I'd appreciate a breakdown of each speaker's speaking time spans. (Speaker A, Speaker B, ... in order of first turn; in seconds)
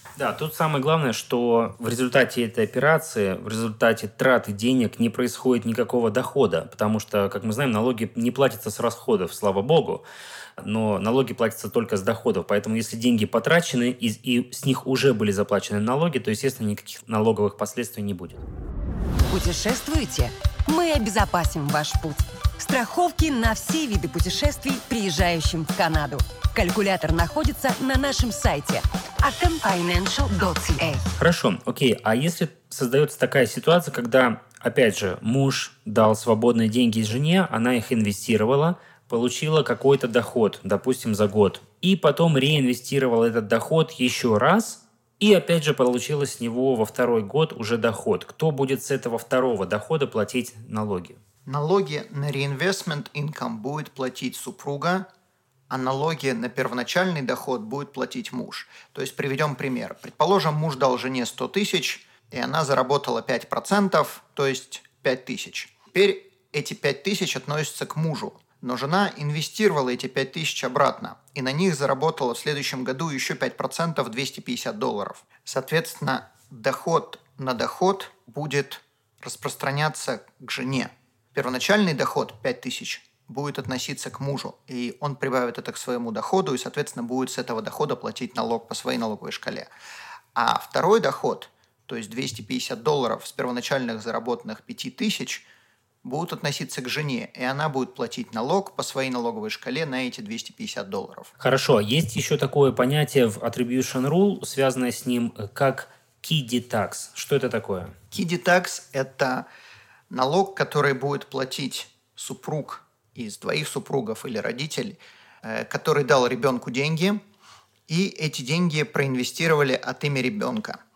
Speaker A: 0.2-10.0, 10.6-18.4, 31.2-51.2, 101.4-107.9
Speaker B: 19.3-31.0
Speaker C: 51.5-55.1, 55.7-89.7, 90.3-95.4, 96.0-101.3, 108.1-109.5, 110.1-117.2, 117.9-120.8